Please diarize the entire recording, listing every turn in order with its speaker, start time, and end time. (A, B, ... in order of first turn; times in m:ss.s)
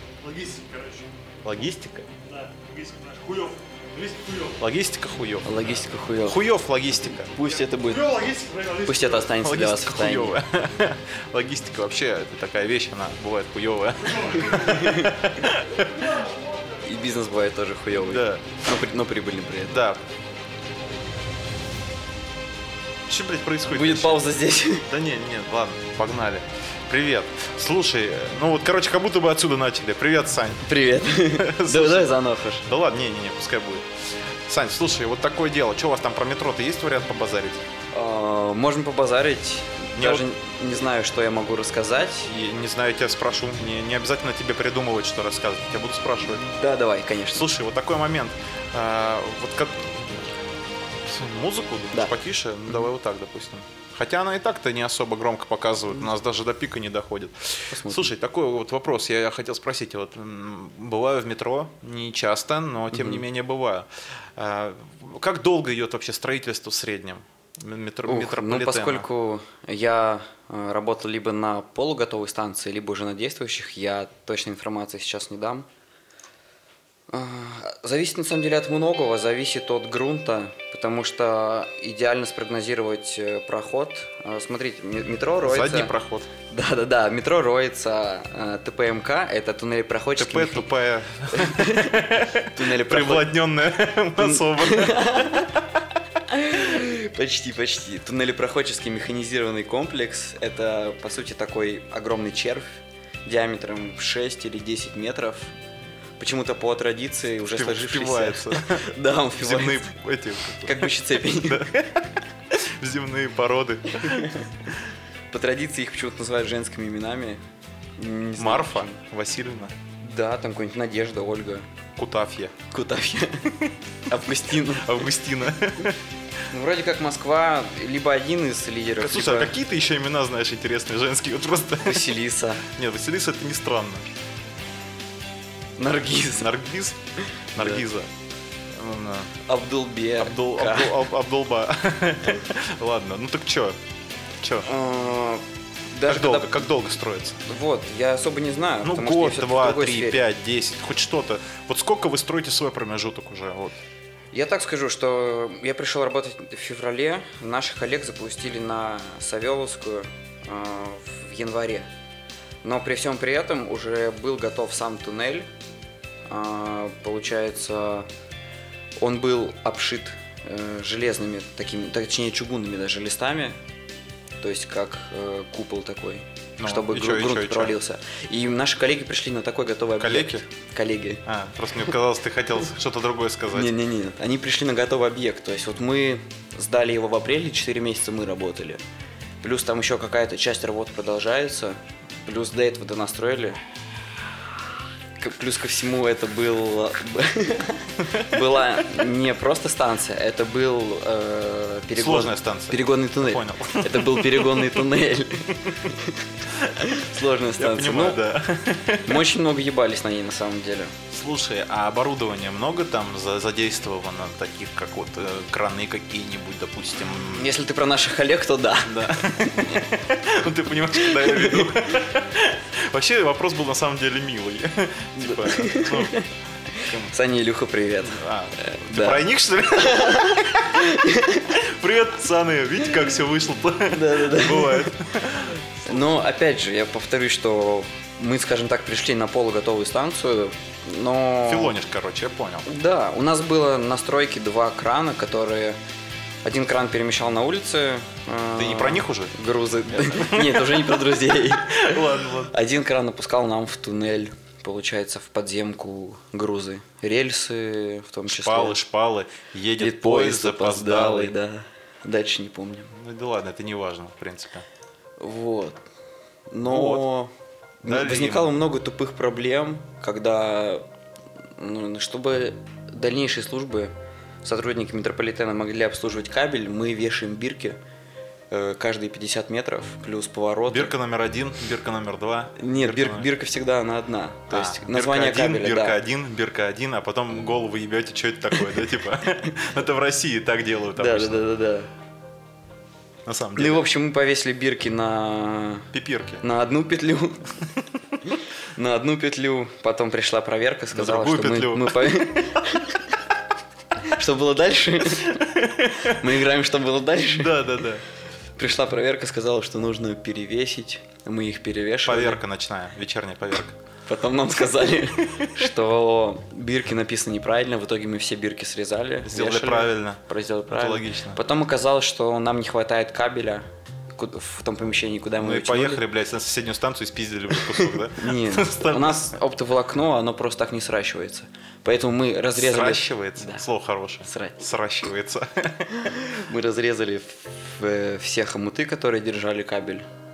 0:00.2-0:01.1 A
0:01.4-0:02.1 B
0:02.2-0:04.6 A
0:04.6-0:05.6 B
0:05.4-0:06.4 C
0:06.2-0:07.3 B
0:07.0-0:08.1 C
0:07.4-0:09.4 A
0:08.8-0:10.4 C
0:09.4-0:16.2 B
0:14.0-0:15.1 A
0:14.4-0:15.2 C
0:15.7-0:17.0 A
0:16.8-0:19.8 C
0:17.9-0:18.5 B
0:19.7-0:20.0 B
0:23.1-0:30.7 B
0:23.7-0:24.9 C
0:30.6-0:32.7 C
0:31.3-0:37.6 B
0:37.9-0:42.3 C
0:40.0-0:40.2 B
0:42.2-0:46.4 B
0:46.4-0:47.5 C
0:47.3-0:50.3 B
0:51.0-1:09.1 B
0:57.7-0:58.1 C
1:02.9-1:03.2 C
1:08.0-1:15.7 C
1:17.1-1:25.9 C
1:25.4-1:26.3 B
1:26.5-1:30.7 C
1:30.2-1:35.6 B
1:31.3-1:33.3 C
1:34.2-1:35.5 C
1:36.3-1:45.5 C
1:46.2-1:49.9 C
1:47.5-1:48.8 B
1:49.4-1:54.3 B
1:50.6-1:51.7 C
1:53.9-1:54.6 C
1:55.3-1:57.4 C
1:58.0-1:59.0 C
1:58.4-1:59.7 B
2:00.0-2:01.7 C
2:02.0-2:02.6 B
2:02.7-2:05.1 C
2:04.6-2:06.0 B
2:06.5-2:09.5 C
2:09.0-2:14.1 B
2:11.8-2:12.6 C
2:15.8-2:16.5 C
2:16.3-2:17.0 B
2:17.5-2:18.1 B
2:18.7-2:19.3 B
2:19.4-2:21.0 C
2:20.2-2:23.8 B
2:24.4-2:24.7 B
2:24.6-2:26.7 C
2:26.1-2:27.4 B
2:27.4-2:30.2 C
2:28.8-2:33.8 B
2:34.3-2:41.9 C
2:42.6-2:45.5 C
2:46.3-2:48.1 C
2:49.0-2:53.6 C
2:54.4-3:01.2 C
2:56.6-2:57.8 B
3:00.0-3:00.4 B
3:01.2-3:03.7 B
3:03.5-3:08.8 C
3:09.4-3:13.6 C
3:15.2-3:28.2 C
3:21.9-3:24.9 B
3:26.6-3:27.0 B
3:27.6-3:29.3 B
3:29.0-3:30.9 C
3:31.1-3:37.5 B
3:37.1-3:39.9 C
3:38.8-3:46.2 B
3:40.9-3:41.9 C
3:45.2-3:49.2 C
3:46.7-3:47.1 B
3:48.0-3:50.9 B
3:49.7-3:51.5 C
3:51.5-3:56.0 B
3:53.9-3:55.0 C
3:55.8-4:01.8 C
4:01.4-4:02.7 B
4:02.6-4:05.8 C
4:06.4-4:18.8 C
4:08.6-4:09.3 B
4:09.9-4:12.5 B
4:18.2-4:21.4 B
4:19.8-4:22.9 C
4:22.9-4:24.6 B
4:25.2-4:25.8 C
4:26.5-4:27.3 C
4:26.6-4:27.0 B
4:27.8-4:30.8 C
4:27.8-4:28.5 B
4:31.6-4:37.8 C
4:38.5-4:40.9 C
4:40.7-4:43.3 B
4:42.6-4:46.0 C
4:44.5-4:51.5 B
4:51.0-4:51.9 C
4:53.2-4:53.9 B
4:53.6-4:55.9 C
4:55.9-4:56.4 B
4:56.4-4:57.5 C
4:58.7-5:03.1 C
5:00.9-5:02.2 B
5:04.0-5:07.8 C
5:05.3-5:06.3 B
5:07.4-5:08.0 B
5:08.6-5:12.4 C
5:12.0-5:13.8 B
5:14.1-5:26.0 C
5:15.4-5:15.7 B
5:19.2-5:21.4 B
5:25.4-5:29.3 B
5:27.5-5:33.6 C
5:32.5-5:35.9 B
5:34.2-5:34.6 C
5:35.9-5:40.0 C